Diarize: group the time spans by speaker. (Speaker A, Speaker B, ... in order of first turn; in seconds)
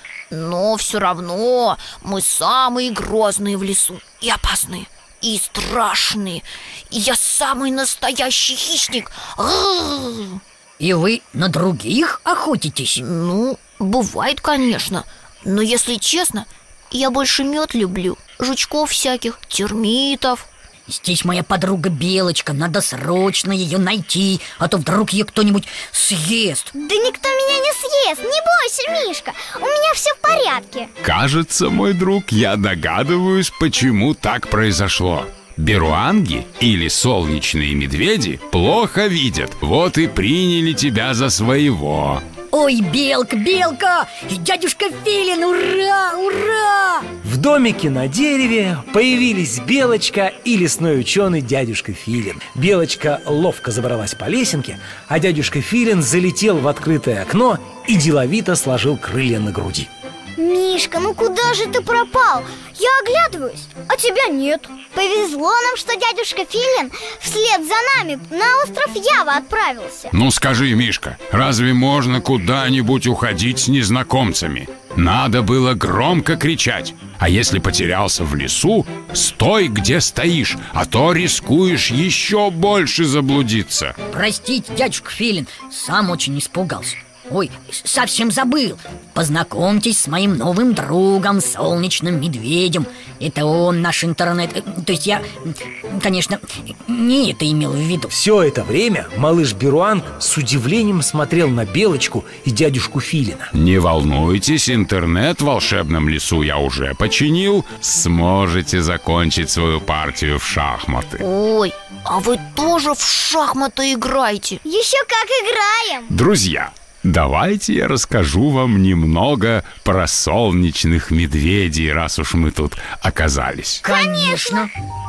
Speaker A: 0.3-10.4, 13.0-20.5, 111.2-114.6
Speaker B: 10.8-13.0, 20.9-26.7, 42.5-47.1, 84.1-98.1, 123.8-124.7
Speaker C: 26.8-30.9, 60.4-70.1, 114.6-116.1, 123.8-124.7
Speaker D: 31.0-42.2, 70.1-83.9, 103.5-111.2, 116.1-123.8
Speaker E: 47.2-59.9, 98.1-103.5